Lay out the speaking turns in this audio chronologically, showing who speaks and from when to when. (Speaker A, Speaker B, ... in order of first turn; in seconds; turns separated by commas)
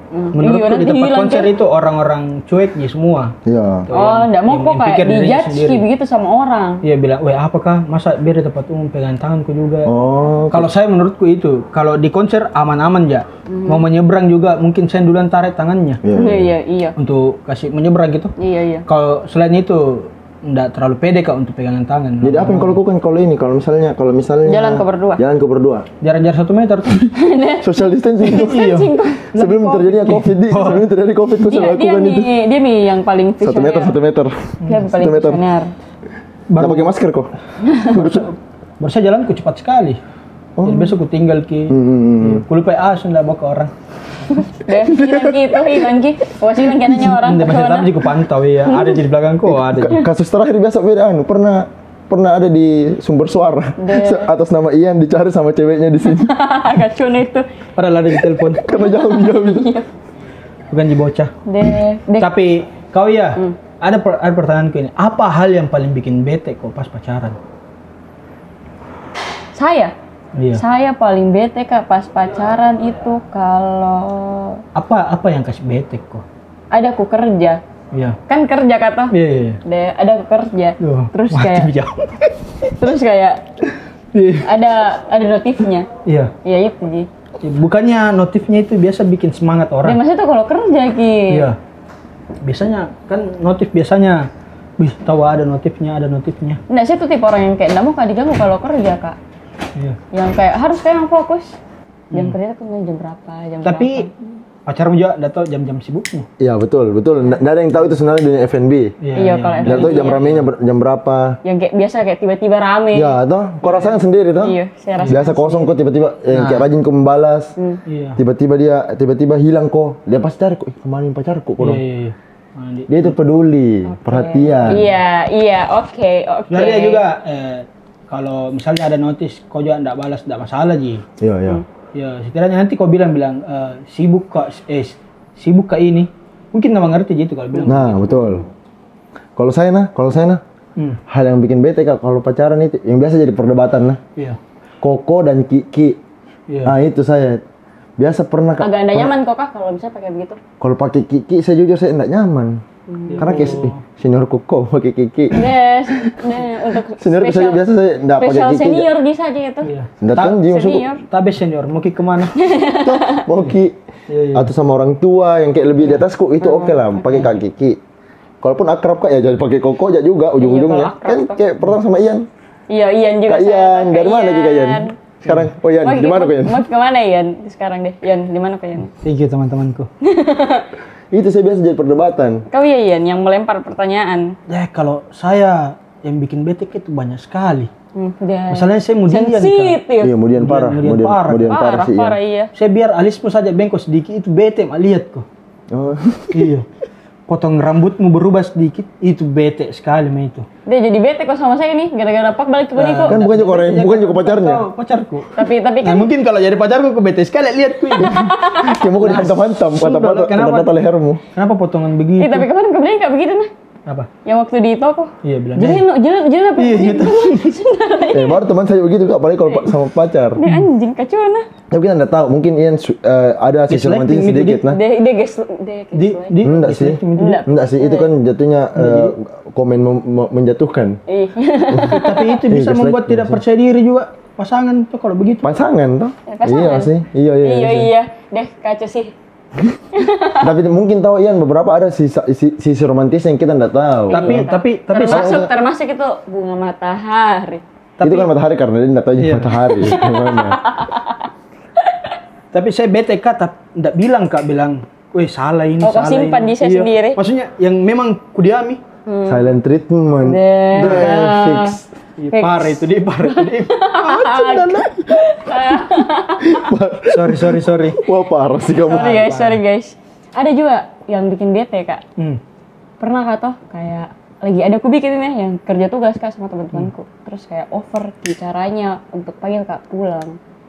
Speaker A: 0.1-1.5, Speaker B: 0.3-3.4, Speaker C: 3.5-3.9, Speaker B: 3.9-5.8, Speaker A: 3.9-6.8, Speaker B: 6.8-9.9, Speaker C: 9.8-10.7, Speaker B: 10.5-16.0, Speaker A: 13.5-13.8, Speaker C: 16.0-16.6, Speaker A: 16.1-16.9, Speaker B: 17.0-18.3, Speaker A: 18.4-18.9, Speaker B: 18.9-22.8, Speaker C: 22.2-25.9, Speaker A: 24.5-25.2, Speaker B: 26.0-27.1, Speaker A: 27.1-29.3, Speaker C: 27.6-28.7, Speaker B: 28.2-30.9, Speaker C: 29.3-32.3, Speaker A: 31.4-34.0, Speaker C: 33.4-35.4, Speaker A: 34.7-35.7, Speaker B: 36.5-36.9, Speaker C: 36.6-37.3, Speaker A: 37.6-38.0, Speaker C: 37.8-38.3, Speaker B: 38.0-40.0, Speaker C: 40.6-40.9, Speaker B: 40.6-43.7, Speaker C: 41.7-42.5, Speaker A: 44.6-48.1, Speaker C: 44.7-45.9, Speaker B: 47.1-50.0, Speaker A: 48.7-49.1, Speaker C: 49.5-56.3, Speaker A: 53.8-54.3, Speaker A: 56.1-57.5, Speaker B: 57.8-58.8, Speaker C: 58.5-59.7, Speaker A: 58.6-59.9, Speaker B: 60.7-61.3, Speaker A: 61.5-62.3, Speaker B: 62.2-67.4, Speaker A: 69.6-69.9, Speaker B: 70.3-70.6, Speaker A: 70.5-74.6, Speaker B: 74.8-76.2, Speaker A: 76.7-77.6, Speaker B: 77.9-78.2, Speaker A: 78.3-79.1, Speaker B: 79.1-79.6, Speaker A: 79.6-81.7, Speaker B: 80.8-82.7, Speaker A: 82.6-83.5, Speaker B: 84.1-84.5, Speaker A: 84.4-85.9, Speaker B: 86.1-86.3, Speaker A: 86.4-87.1, Speaker B: 87.4-90.0, Speaker A: 89.8-91.5, Speaker B: 91.3-91.6, Speaker B: 92.4-96.6, Speaker A: 96.7-99.2, Speaker A: 100.1-101.6, Speaker B: 102.1-102.4, Speaker A: 102.1-104.1, Speaker B: 103.6-104.1, Speaker B: 104.7-106.3, Speaker C: 106.4-108.9, Speaker B: 109.0-110.5, Speaker A: 109.2-110.3, Speaker C: 109.6-111.4, Speaker A: 111.4-113.2, Speaker C: 112.9-117.5, Speaker B: 113.6-114.0, Speaker A: 114.4-115.7, Speaker B: 115.0-115.3, Speaker B: 116.3-116.7, Speaker B: 117.9-118.2, Speaker C: 118.2-121.8, Speaker B: 121.6-123.1, Speaker C: 122.9-124.8, Speaker A: 123.9-127.0, Speaker B: 126.5-131.0, Speaker C: 131.2-131.6, Speaker B: 131.9-138.1, Speaker C: 137.7-138.4, Speaker A: 138.1-138.4, Speaker C: 139.4-140.4, Speaker C: 141.1-144.0, Speaker C: 144.8-146.0, Speaker B: 146.5-146.8, Speaker C: 146.7-147.4, Speaker C: 148.0-149.1, Speaker A: 148.6-150.4, Speaker C: 150.6-152.6, Speaker A: 152.9-153.6, Speaker B: 153.1-153.8, Speaker C: 153.2-156.2, Speaker A: 155.3-157.6, Speaker C: 157.0-158.9, Speaker A: 158.2-159.7, Speaker B: 159.6-160.4, Speaker C: 160.0-160.9, Speaker A: 160.2-161.0, Speaker B: 161.0-162.4, Speaker A: 162.3-163.3, Speaker C: 162.8-163.8, Speaker B: 164.1-164.5, Speaker C: 164.3-167.8, Speaker A: 166.4-167.2, Speaker C: 168.4-172.3, Speaker A: 170.4-171.4, Speaker A: 172.7-174.9, Speaker C: 173.3-176.7, Speaker B: 175.2-175.5, Speaker A: 175.8-178.9, Speaker B: 179.0-179.9, Speaker A: 180.0-180.7, Speaker C: 181.1-182.4, Speaker A: 182.5-184.4, Speaker B: 184.5-187.7, Speaker A: 187.9-190.1, Speaker B: 188.5-189.8, Speaker C: 190.0-192.2, Speaker B: 190.4-191.6, Speaker A: 191.4-192.5, Speaker B: 192.5-195.3, Speaker C: 195.7-196.5, Speaker B: 196.3-196.7, Speaker B: 197.3-200.5, Speaker A: 200.7-203.2, Speaker B: 202.8-208.3, Speaker C: 203.1-204.6, Speaker A: 205.4-206.1, Speaker A: 208.0-208.8, Speaker C: 208.0-211.2, Speaker B: 209.0-210.7, Speaker B: 211.3-212.5, Speaker A: 212.2-213.5, Speaker A: 214.2-218.4, Speaker B: 215.2-215.9, Speaker B: 216.6-217.6, Speaker C: 218.1-220.4, Speaker A: 219.5-219.8, Speaker A: 220.3-221.5, Speaker C: 221.7-224.8, Speaker B: 223.7-224.6, Speaker A: 224.7-226.3, Speaker B: 225.9-227.4, Speaker C: 226.4-231.0, Speaker A: 227.2-228.1, Speaker B: 228.8-229.2, Speaker A: 231.1-232.4, Speaker C: 231.7-233.4, Speaker B: 231.9-235.6, Speaker C: 235.4-237.9, Speaker A: 236.3-239.1, Speaker A: 239.9-240.5, Speaker C: 240.4-244.5, Speaker A: 244.1-247.6, Speaker B: 244.1-245.4, Speaker C: 245.1-245.5, Speaker B: 248.0-248.3, Speaker C: 248.0-250.7, Speaker B: 249.2-250.0, Speaker A: 249.8-251.2, Speaker A: 251.8-252.1, Speaker B: 252.5-258.8, Speaker A: 255.8-257.2, Speaker A: 259.1-259.5, Speaker C: 259.3-261.9, Speaker A: 260.2-261.8, Speaker B: 260.7-261.4, Speaker B: 262.2-264.9, Speaker A: 262.3-266.7, Speaker C: 266.4-269.3, Speaker B: 267.1-268.0, Speaker A: 268.6-272.0, Speaker B: 268.8-269.6, Speaker A: 273.0-280.4